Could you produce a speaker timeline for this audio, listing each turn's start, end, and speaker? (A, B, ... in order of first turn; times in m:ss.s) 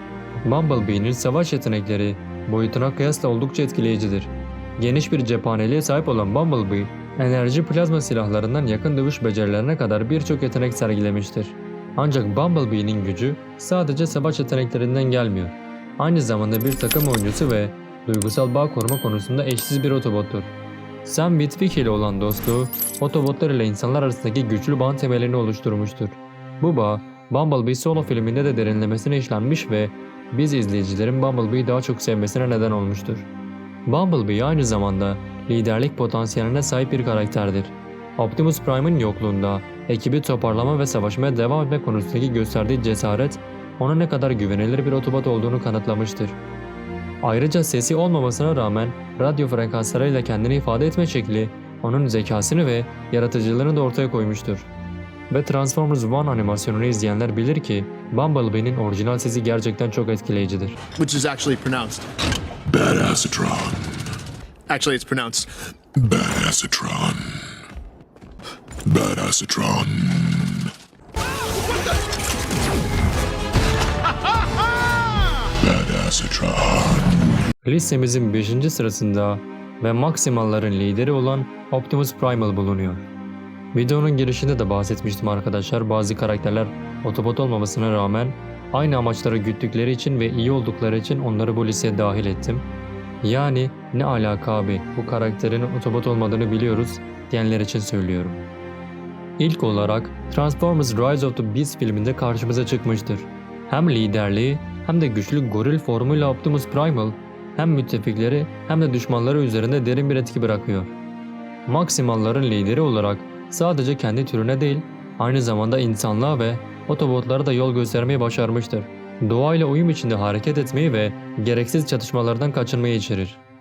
0:00.4-0:20.5 A
0:21.0-0:33.3 A
0:33.8-0:46.4 A
0:47.2-0:54.7 A
0:55.3-1:00.8 A
1:01.0-1:02.1 B
1:02.7-1:04.0 C
1:04.7-1:05.5 B
1:06.0-1:07.3 C
1:08.9-1:10.7 C
1:15.6-1:17.0 C
1:17.6-1:23.1 A
1:23.7-1:32.7 A
1:33.2-1:38.4 A
1:39.4-1:50.9 A
1:51.7-2:03.4 A